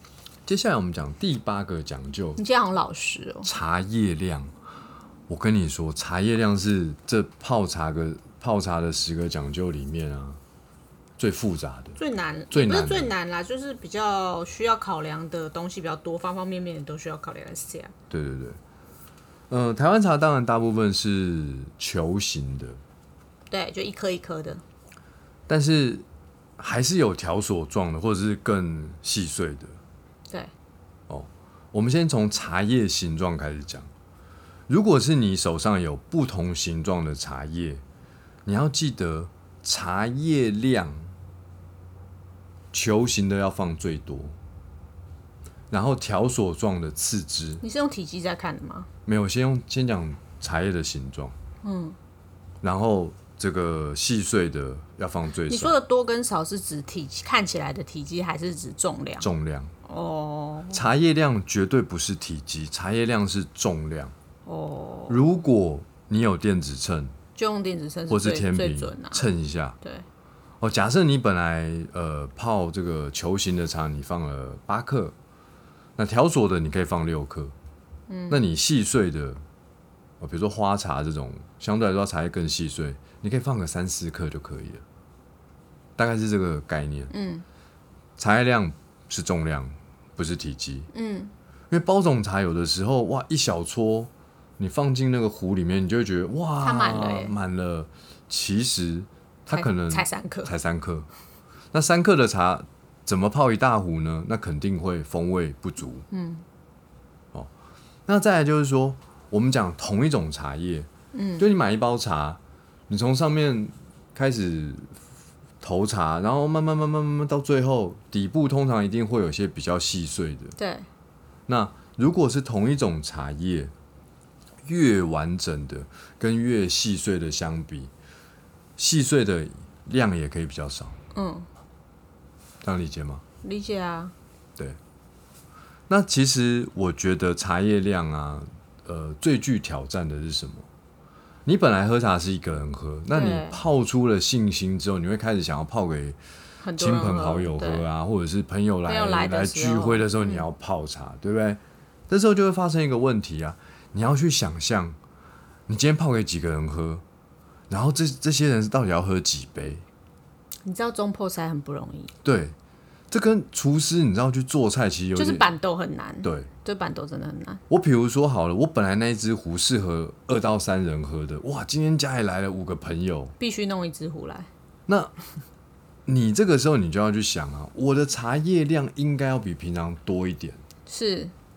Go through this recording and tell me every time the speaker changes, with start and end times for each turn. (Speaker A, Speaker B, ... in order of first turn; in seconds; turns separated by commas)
Speaker A: 0.5-2.4, Speaker B: 2.4-3.5, Speaker A: 3.4-4.5, Speaker A: 5.3-10.4, Speaker A: 11.2-12.0, Speaker B: 12.0-17.9, Speaker A: 12.5-13.1, Speaker A: 18.1-18.6, Speaker A: 19.5-22.8, Speaker B: 23.5-24.6, Speaker A: 25.5-26.0, Speaker A: 26.6-29.8, Speaker A: 31.1-33.9, Speaker A: 34.7-37.8, Speaker A: 38.5-41.1, Speaker A: 42.7-44.4, Speaker A: 45.7-47.6, Speaker B: 47.6-48.9, Speaker A: 49.0-51.4, Speaker B: 51.6-52.0, Speaker A: 52.6-55.8, Speaker B: 55.5-59.3, Speaker A: 59.2-59.7, Speaker B: 59.8-60.8, Speaker A: 60.7-64.1, Speaker B: 64.5-65.2, Speaker A: 65.1-67.1, Speaker B: 67.3-69.2, Speaker A: 68.1-69.8, Speaker A: 70.6-75.1, Speaker A: 76.0-77.5, Speaker B: 78.1-78.4, Speaker A: 78.3-79.4, Speaker A: 80.2-84.8, Speaker A: 86.0-87.1, Speaker B: 87.1-87.4, Speaker A: 88.2-90.9, Speaker B: 90.9-91.3, Speaker A: 91.7-101.1, Speaker B: 96.6-97.3, Speaker B: 99.5-100.5, Speaker A: 101.7-106.0, Speaker B: 106.1-106.4, Speaker A: 108.1-115.0, Speaker B: 111.1-111.5, Speaker A: 115.6-120.5, Speaker B: 120.6-120.9, Speaker A: 121.5-123.7, Speaker A: 124.6-127.9, Speaker A: 128.8-131.0, Speaker B: 131.1-131.5, Speaker A: 132.6-133.2, Speaker B: 133.4-134.1, Speaker A: 135.9-140.7, Speaker A: 141.4-146.2, Speaker B: 143.1-143.6, Speaker B: 146.6-147.8, Speaker A: 146.8-155.0, Speaker B: 148.9-150.5, Speaker A: 155.7-157.0, Speaker A: 157.7-159.8, Speaker B: 160.6-162.1, Speaker A: 162.2-162.5, Speaker A: 163.1-165.5, Speaker B: 165.1-167.6, Speaker A: 166.2-166.5, Speaker A: 167.7-173.3, Speaker B: 173.4-174.5, Speaker A: 174.9-175.1, Speaker A: 176.1-180.6, Speaker B: 180.9-181.3